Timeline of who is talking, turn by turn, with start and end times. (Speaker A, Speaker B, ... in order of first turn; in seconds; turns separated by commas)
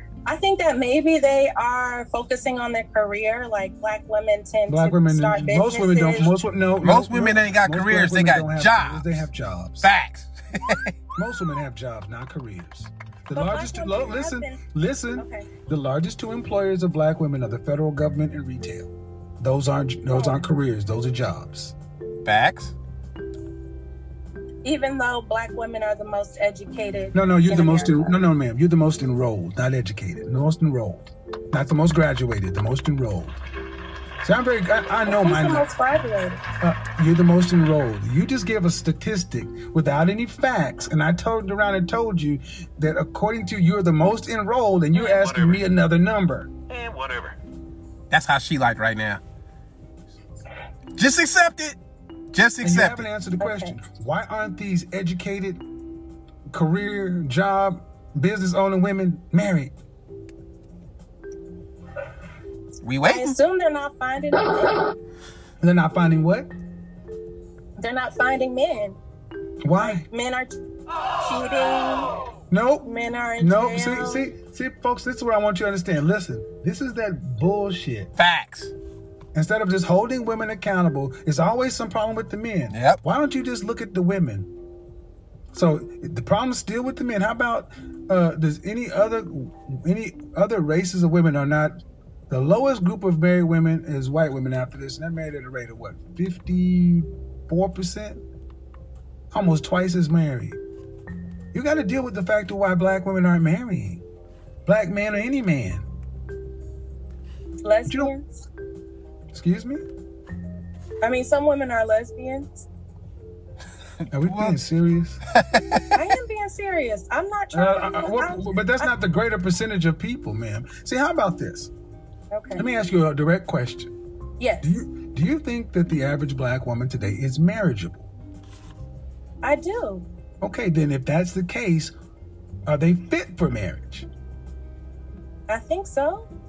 Speaker A: 0.2-6.4, Speaker B: 4.7-9.9, Speaker C: 6.8-9.3, Speaker C: 9.8-10.9, Speaker B: 11.2-21.7, Speaker A: 13.3-15.5, Speaker A: 20.1-20.4, Speaker C: 22.2-22.7, Speaker A: 24.6-28.2, Speaker B: 27.1-33.4, Speaker B: 34.2-35.7, Speaker A: 35.0-36.4, Speaker B: 36.6-46.5, Speaker A: 44.9-45.3, Speaker C: 46.7-47.3, Speaker C: 48.1-49.2, Speaker C: 51.0-51.8, Speaker C: 52.3-53.1, Speaker B: 52.6-55.6, Speaker A: 53.4-53.8, Speaker B: 56.5-59.7, Speaker C: 62.8-63.4, Speaker A: 63.0-64.7, Speaker B: 65.6-66.5, Speaker A: 67.8-69.0, Speaker B: 69.6-70.0, Speaker A: 69.8-70.5, Speaker A: 71.2-72.1, Speaker B: 72.5-78.1, Speaker A: 72.8-74.3, Speaker C: 78.2-78.7, Speaker B: 79.3-84.5, Speaker C: 82.7-83.0, Speaker B: 85.5-91.8, Speaker B: 92.3-98.2, Speaker B: 99.3-100.6, Speaker B: 101.5-104.0, Speaker B: 104.7-105.8, Speaker A: 107.6-108.4, Speaker B: 107.9-108.1, Speaker B: 109.3-109.8, Speaker A: 111.0-112.7, Speaker B: 114.1-115.2, Speaker C: 114.2-114.6, Speaker C: 115.3-116.1, Speaker A: 115.9-118.9, Speaker B: 117.5-121.7, Speaker A: 122.3-122.6, Speaker B: 122.6-123.9, Speaker A: 124.4-124.8, Speaker B: 124.6-128.1, Speaker A: 129.4-130.1, Speaker B: 130.4-131.9, Speaker B: 132.7-134.1, Speaker A: 135.5-136.3